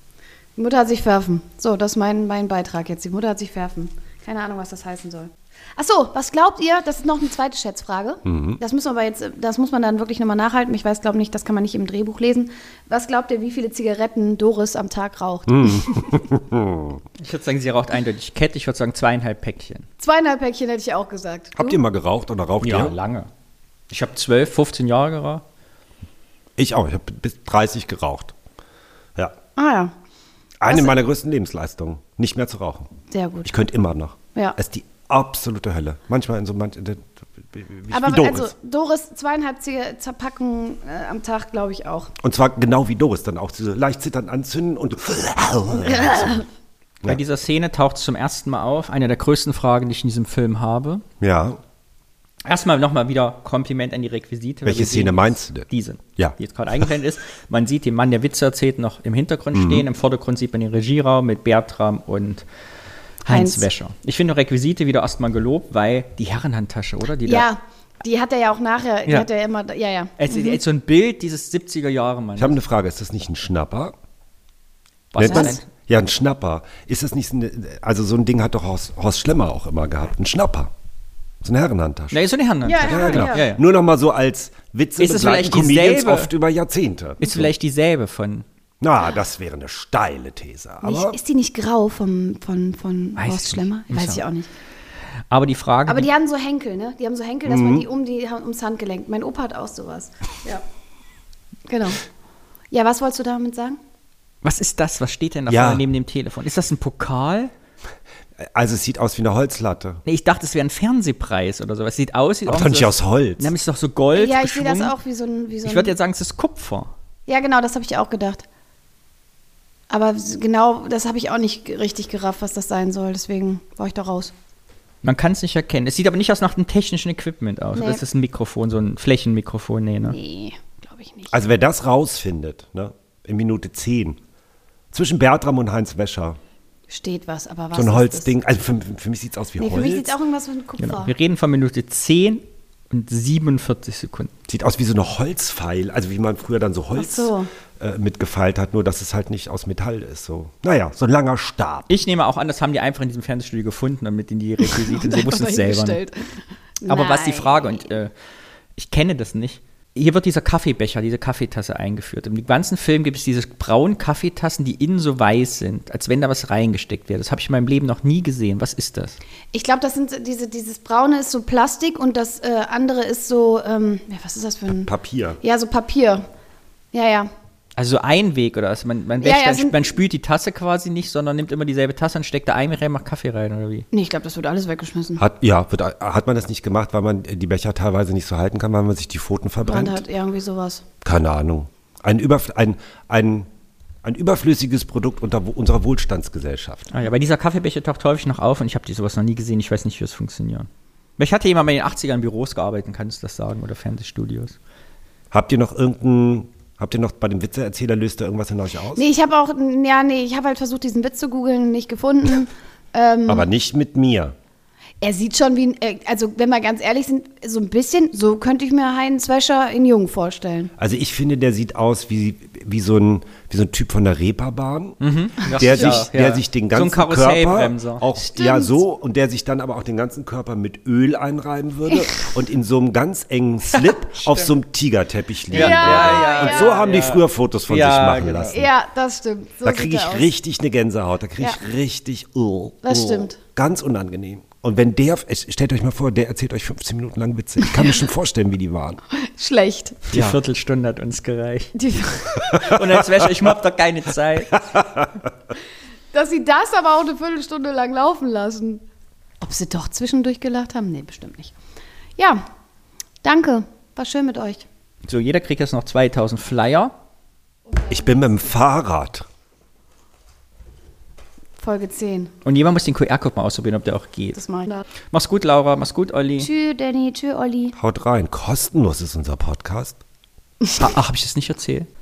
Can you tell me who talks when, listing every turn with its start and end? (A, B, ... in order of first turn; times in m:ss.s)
0:00.6-0:16.2 A
0:08.2-0:08.6 B
0:15.5-0:17.0 B
0:17.2-0:19.9 C
0:20.0-0:21.8 A
0:21.6-0:22.9 B
0:22.6-0:23.3 C
0:23.9-0:25.4 C
0:26.6-0:28.3 B
0:29.6-0:29.9 A
0:30.6-0:32.9 B
0:30.7-0:30.9 A
0:33.1-0:33.5 A
0:33.4-0:38.5 B
0:37.9-0:42.1 A
0:42.2-0:46.4 B
0:45.7-0:46.4 A
0:47.0-0:51.0 C
0:51.2-0:51.6 B
0:52.4-1:02.4 C
0:54.6-0:56.4 B
0:59.5-0:59.8 B
1:03.2-1:03.7 A
1:03.2-1:07.5 C
1:07.2-1:10.6 A
1:10.2-1:12.6 C
1:12.4-1:14.0 B
1:15.1-1:15.6 C
1:15.2-1:20.7 B
1:15.2-1:15.6 A
1:21.4-1:22.2 B
1:22.1-1:23.6 C
1:22.6-1:23.5 A
1:22.8-1:27.5 B
1:25.0-1:26.3 C
1:27.2-1:28.4 C
1:28.8-1:31.2 B
1:30.8-1:34.5 A
1:33.2-1:34.2 C
1:35.3-1:36.1 C
1:35.9-1:40.6 A
1:37.4-1:37.8 B
1:41.7-1:42.0 A
1:42.7-1:43.8 A
1:44.4-1:47.5 C
1:45.5-1:45.8 B
1:48.4-1:50.0 B
1:50.0-1:54.9 C
1:52.5-1:53.5 B
1:54.1-1:55.9 A
1:55.6-1:56.9 C
1:57.3-1:58.4 A
1:59.9-2:04.3 A
2:05.0-2:10.2 C
2:07.8-2:08.0 A
2:10.1-2:11.5 A
2:11.3-2:14.2 B
2:14.9-2:16.4 B
2:16.9-2:18.3 A
2:17.7-2:20.1 B
2:19.6-2:21.1 A
2:20.8-2:24.3 C
2:24.5-2:31.9 B
2:26.9-2:27.5 A
2:31.9-2:36.0 C
2:34.6-2:37.9 A
2:36.9-2:38.1 C
2:38.8-2:49.2 C
2:49.5-2:56.2 A
2:54.9-2:55.4 B
2:56.9-2:57.3 A
2:57.8-3:03.9 C
2:59.2-2:59.9 A
3:03.9-3:05.2 A
3:05.2-3:10.0 B
3:09.6-3:10.8 A
3:11.0-3:13.5 B
3:14.0-3:16.9 B
3:16.9-3:24.6 C
3:25.3-3:29.0 B
3:28.9-3:33.5 A
3:33.3-3:34.3 B
3:35.0-3:40.7 A
3:40.8-3:58.7 B
3:45.0-3:48.0 C
3:48.1-3:48.8 A
3:51.9-3:52.2 A
3:53.7-3:54.5 C
3:55.5-3:56.8 A
3:55.5-3:58.6 C
3:58.5-4:00.3 A
3:59.6-4:09.0 B
4:02.8-4:03.4 A
4:09.1-4:10.0 A
4:10.1-4:14.8 C
4:10.1-4:10.4 B
4:11.8-4:12.4 A
4:12.5-4:12.8 B
4:14.7-4:15.1 B
4:16.1-4:18.8 A
4:19.4-4:21.5 A
4:22.2-4:22.4 A
4:23.2-4:24.6 A
4:25.0-4:26.9 C
4:27.9-4:29.2 B
4:31.6-4:32.3 A
4:32.4-4:34.4 C
4:34.3-4:34.8 A
4:35.1-4:36.5 C
4:36.4-4:37.8 A
4:37.8-4:40.0 B
4:40.8-4:41.9 C